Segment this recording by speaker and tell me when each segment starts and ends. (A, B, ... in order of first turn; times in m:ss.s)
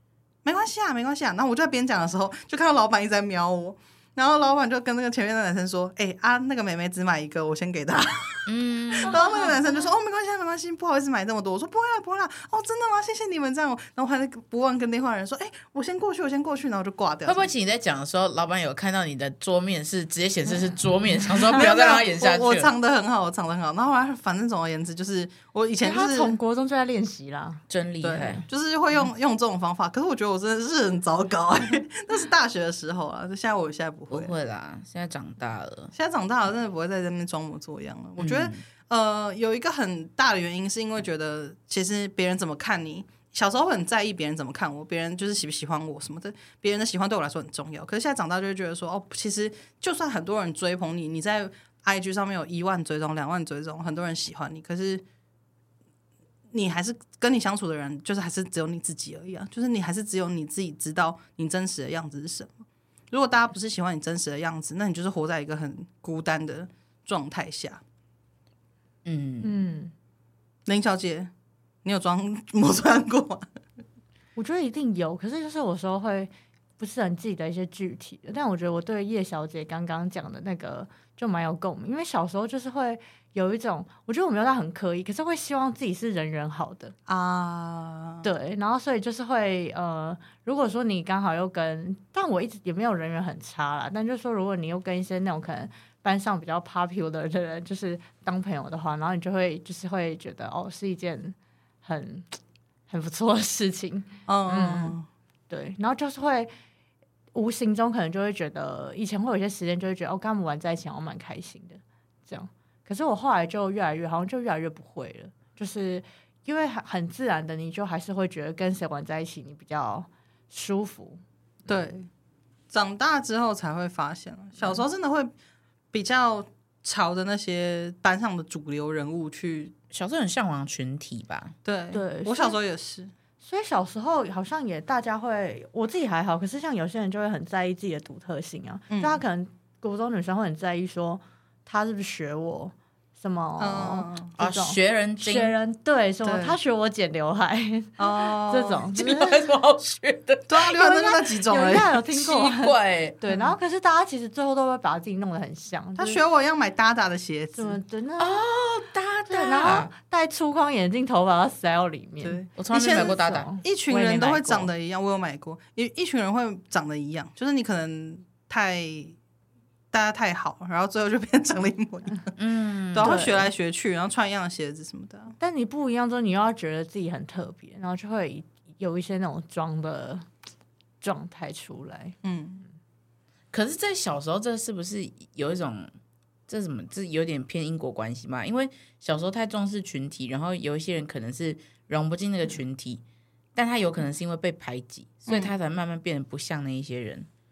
0:00.4-0:17.5 A
0:08.5-0:09.5 B
0:17.2-0:22.7 B
0:21.5-0:26.4 A
0:25.8-0:27.6 C
0:27.7-0:28.4 B
0:28.0-0:34.3 A
0:34.1-0:35.9 B
0:35.9-0:55.0 A
0:38.2-0:38.6 B
0:56.5-1:07.8 A
1:09.0-1:09.5 B
1:09.4-1:09.9 C
1:10.7-1:11.3 A
1:11.8-1:13.5 A
1:14.4-1:26.9 C
1:27.1-1:28.3 A
1:28.2-1:42.4 C
1:42.9-1:45.0 C
1:44.3-1:45.1 A
1:45.5-1:46.5 C
1:47.3-2:01.2 C
2:01.7-2:02.1 A
2:02.7-2:05.3 A
2:05.9-2:09.7 A
2:09.9-2:11.6 B
2:11.6-2:13.1 A
2:11.9-2:12.6 C
2:13.4-2:29.5 C
2:18.9-2:19.2 A
2:23.6-2:24.3 A
2:24.4-2:25.6 B
2:26.2-2:26.6 A
2:28.0-2:28.9 A
2:29.0-2:31.1 B
2:30.5-2:32.0 A
2:31.4-2:36.2 C
2:32.1-2:33.2 B
2:36.0-2:37.8 A
2:37.6-2:38.4 C
2:38.2-2:39.9 B
2:39.3-2:44.6 C
2:42.2-2:49.2 A
2:42.6-2:43.5 B
2:49.9-2:52.4 A
2:52.4-2:53.4 B
2:52.9-2:55.4 A
2:53.0-2:53.5 C
2:55.4-3:00.3 C
3:01.0-3:02.2 C
3:02.2-3:02.6 A
3:03.5-3:05.9 B
3:06.5-3:13.0 B
3:13.6-3:17.3 B
3:15.3-3:15.5 A